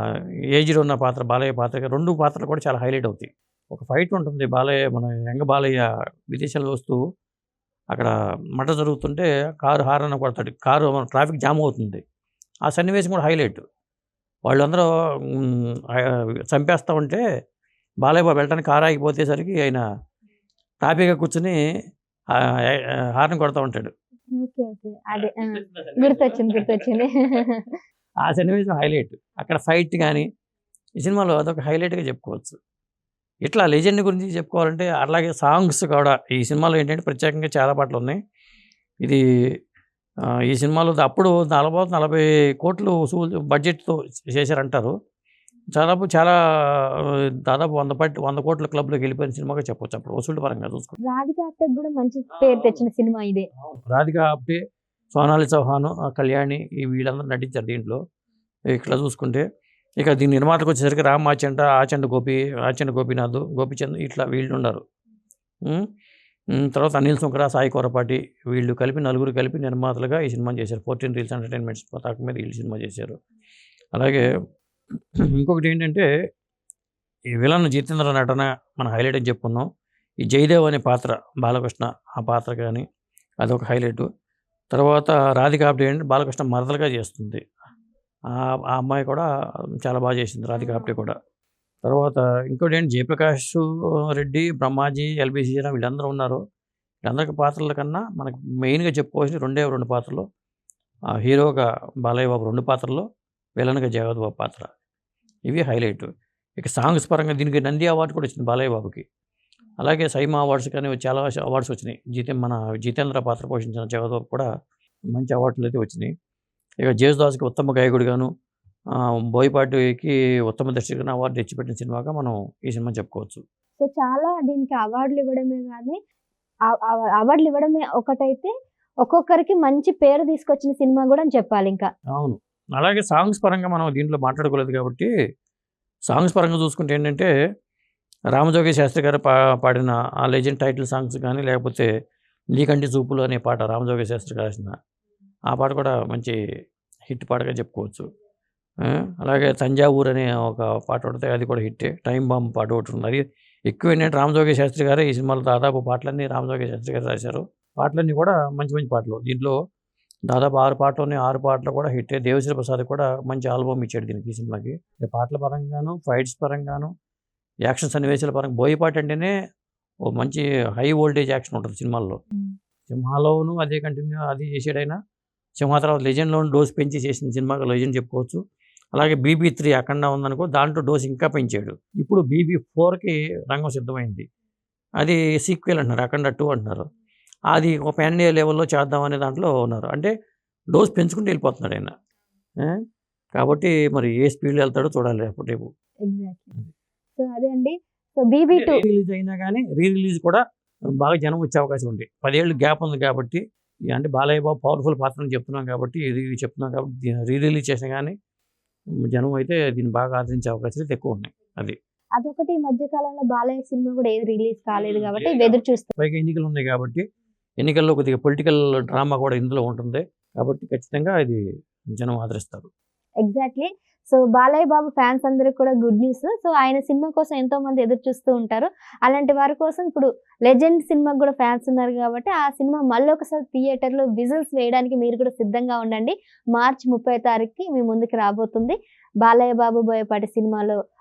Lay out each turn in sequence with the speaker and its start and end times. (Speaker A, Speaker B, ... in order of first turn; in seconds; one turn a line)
Speaker A: 0.5-5.8
Speaker A: 6.3-7.0
Speaker A: 7.9-12.0
Speaker A: 12.7-13.6
Speaker A: 14.4-17.2
Speaker A: 18.0-19.8
Speaker A: 20.8-21.6
Speaker A: 22.4-23.9
Speaker B: 24.4-27.7
Speaker A: 25.2-26.9
Speaker A: 28.2-30.2
Speaker A: 31.0-32.6
Speaker A: 33.4-38.2
Speaker A: 40.5-44.9
Speaker A: 45.7-51.0
Speaker B: 51.0-53.5
Speaker A: 52.4-52.8
Speaker A: 53.6-54.6
Speaker A: 55.1-58.0
Speaker A: 58.7-59.4
Speaker A: 60.0-64.8
Speaker A: 66.6-73.2
Speaker A: 74.0-74.2
Speaker A: 75.4-76.0
Speaker A: 77.4-79.6
Speaker A: 80.2-82.8
Speaker A: 83.4-84.0
Speaker A: 84.7-87.4
Speaker A: 88.3-89.2
Speaker A: 89.8-91.1
Speaker B: 90.6-91.0
Speaker A: 91.8-93.6
Speaker A: 94.1-96.4
Speaker A: 97.0-100.2
Speaker A: 101.2-103.0
Speaker A: 103.6-104.7
Speaker A: 105.5-106.0
Speaker A: 106.6-109.0
Speaker A: 109.8-114.5
Speaker A: 115.1-116.1
Speaker A: 116.8-118.3
Speaker A: 119.3-123.4
Speaker B: 123.8-126.0
Speaker B: 126.7-128.5
Speaker B: 129.0-131.9
Speaker A: 132.1-135.1
Speaker A: 136.1-137.3
Speaker A: 138.3-141.8
Speaker A: 142.5-144.7
Speaker A: 145.5-146.4
Speaker A: 147.1-148.0
Speaker A: 148.8-159.5
Speaker A: 160.3-166.9
Speaker A: 167.6-169.3
Speaker A: 170.1-172.2
Speaker A: 172.9-175.0
Speaker A: 175.6-178.4
Speaker A: 178.9-184.2
Speaker A: 185.0-186.8
Speaker A: 187.5-190.1
Speaker A: 190.7-191.9
Speaker A: 193.3-195.7
Speaker B: 196.1-196.5
Speaker B: 197.2-198.8
Speaker A: 198.5-200.4
Speaker A: 201.0-208.1
Speaker A: 209.1-211.8
Speaker B: 212.2-215.9
Speaker A: 214.7-217.0
Speaker A: 217.6-221.4
Speaker A: 221.9-222.7
Speaker B: 223.2-240.8